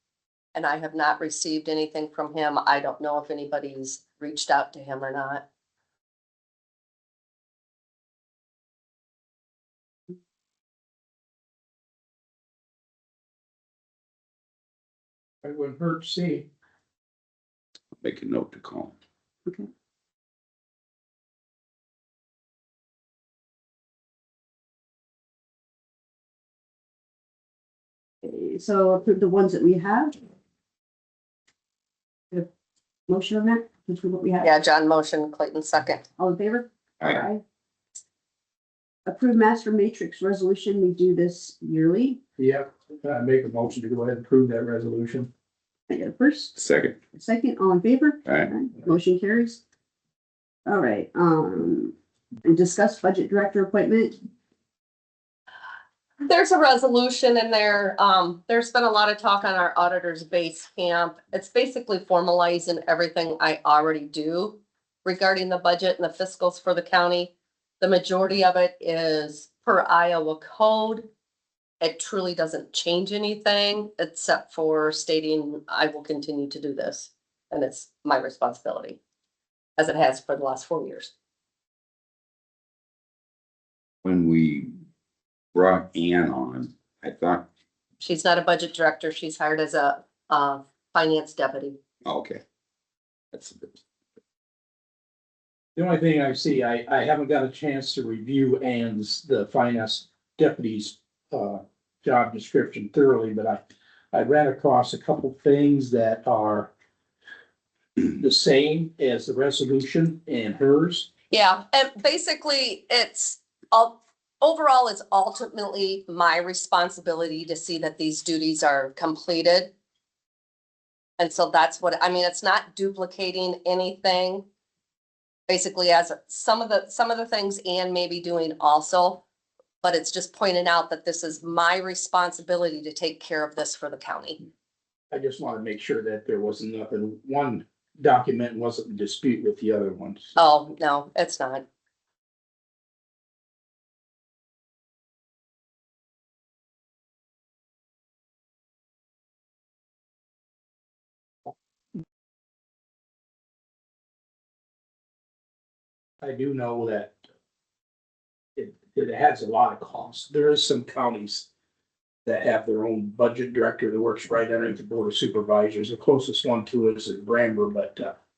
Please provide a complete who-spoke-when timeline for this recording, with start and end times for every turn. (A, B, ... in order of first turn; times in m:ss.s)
0:00.5-0:05.4 A
0:15.4-0:16.5 B
0:18.0-0:18.9 C
0:28.2-0:30.1 D
0:33.1-0:34.5 D
0:34.4-0:36.0 A
0:36.2-0:37.4 D
0:37.0-0:37.2 C
0:39.1-0:42.2 D
0:42.4-0:45.3 B
0:45.9-0:46.5 D
0:46.6-0:47.0 C
0:47.1-0:49.6 D
0:48.2-0:48.5 C
0:50.7-0:51.9 D
0:52.4-0:54.2 D
0:56.2-1:11.1 A
1:11.8-1:19.0 A
1:19.8-1:21.1 A
1:24.0-1:24.7 C
1:25.5-1:27.5 C
1:28.0-1:31.8 A
1:32.0-1:32.4 C
1:33.3-1:33.8 C
1:35.8-1:46.7 B
1:48.0-1:51.1 B
1:51.3-1:59.7 A
2:01.2-2:04.4 A
2:05.5-2:09.2 A
2:09.8-2:14.4 A
2:15.1-2:20.3 B
2:20.4-2:21.6 A
2:36.2-2:37.1 B
2:38.6-2:41.5 B
2:42.2-2:48.2 B